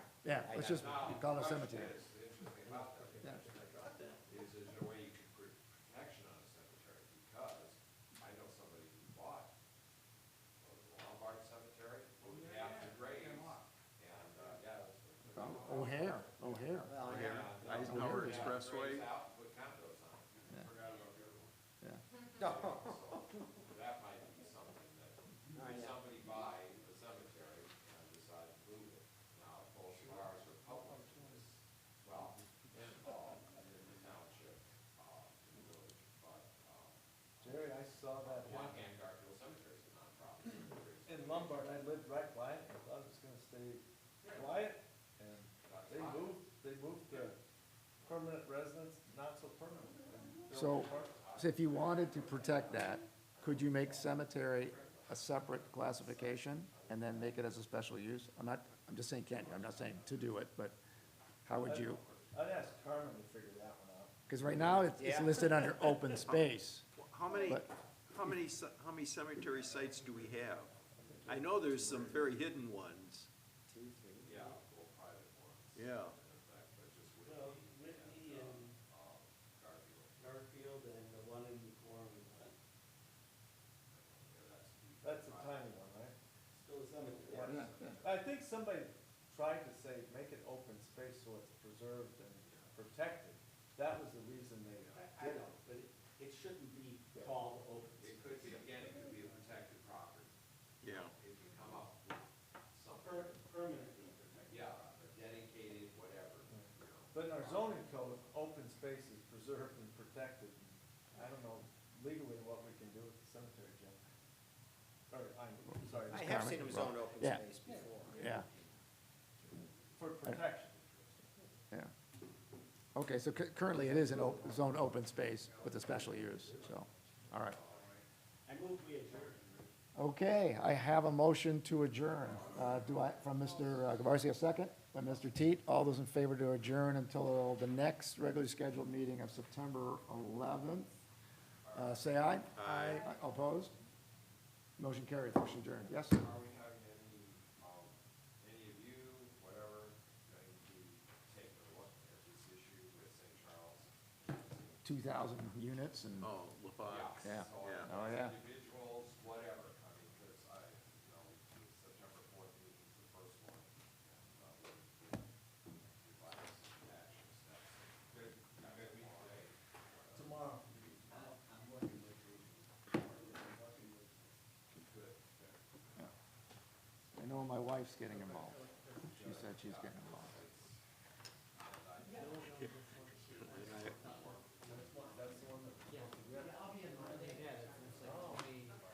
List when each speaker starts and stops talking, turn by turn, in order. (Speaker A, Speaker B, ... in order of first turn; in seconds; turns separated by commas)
Speaker A: 0.2-2.0, Speaker B: 0.4-0.8, Speaker C: 0.7-9.5, Speaker D: 3.2-4.2, Speaker C: 10.6-21.5, Speaker E: 12.2-12.5, Speaker D: 13.2-13.5, Speaker A: 15.3-17.0, Speaker E: 17.0-19.1, Speaker A: 17.7-18.6, Speaker C: 22.4-37.0, Speaker B: 22.5-22.8, Speaker B: 25.5-25.9, Speaker F: 37.4-38.8, Speaker C: 38.3-41.7, Speaker F: 41.0-47.4, Speaker C: 45.6-46.4, Speaker F: 48.0-51.2, Speaker A: 50.5-60.8, Speaker C: 50.6-52.6, Speaker C: 53.4-57.4, Speaker C: 59.3-60.4, Speaker C: 61.0-63.1, Speaker A: 61.4-62.0, Speaker F: 61.6-64.1, Speaker A: 64.3-66.8, Speaker B: 65.0-65.3, Speaker E: 66.1-66.4, Speaker E: 67.0-70.7, Speaker C: 69.5-72.4, Speaker E: 71.2-73.3, Speaker B: 73.7-74.2, Speaker C: 74.2-80.2, Speaker E: 75.7-76.2, Speaker D: 77.2-78.7, Speaker D: 80.2-82.5, Speaker C: 83.9-85.8, Speaker F: 85.0-86.2, Speaker D: 86.5-87.7, Speaker C: 87.0-88.2, Speaker A: 87.4-87.9, Speaker F: 88.0-95.0, Speaker C: 92.4-92.7, Speaker C: 94.8-95.2, Speaker D: 94.9-98.6, Speaker C: 98.0-103.5, Speaker E: 100.8-101.1, Speaker D: 103.0-104.5, Speaker C: 104.3-107.9, Speaker F: 106.5-114.0, Speaker F: 115.1-116.6, Speaker A: 116.1-117.5, Speaker B: 116.2-117.5, Speaker D: 117.7-118.4, Speaker A: 118.1-118.5, Speaker F: 120.0-121.2, Speaker A: 122.9-127.6, Speaker F: 123.7-124.3, Speaker C: 127.4-128.0, Speaker D: 128.4-129.7, Speaker A: 129.9-141.0, Speaker C: 132.3-132.8, Speaker C: 141.6-142.1, Speaker A: 141.7-143.7, Speaker E: 142.6-143.1, Speaker A: 144.8-146.2, Speaker C: 145.9-154.8, Speaker A: 154.8-156.3, Speaker E: 156.2-157.9, Speaker C: 156.8-170.3, Speaker A: 157.2-158.4, Speaker F: 170.1-171.3, Speaker D: 171.1-174.3, Speaker C: 174.7-175.6, Speaker A: 177.2-180.4, Speaker D: 178.5-179.2, Speaker C: 179.1-180.8, Speaker C: 181.5-182.6, Speaker D: 182.2-183.0, Speaker E: 182.4-182.8, Speaker E: 183.3-184.1, Speaker C: 183.4-184.7, Speaker F: 184.6-187.2, Speaker D: 187.2-188.7, Speaker F: 188.0-188.5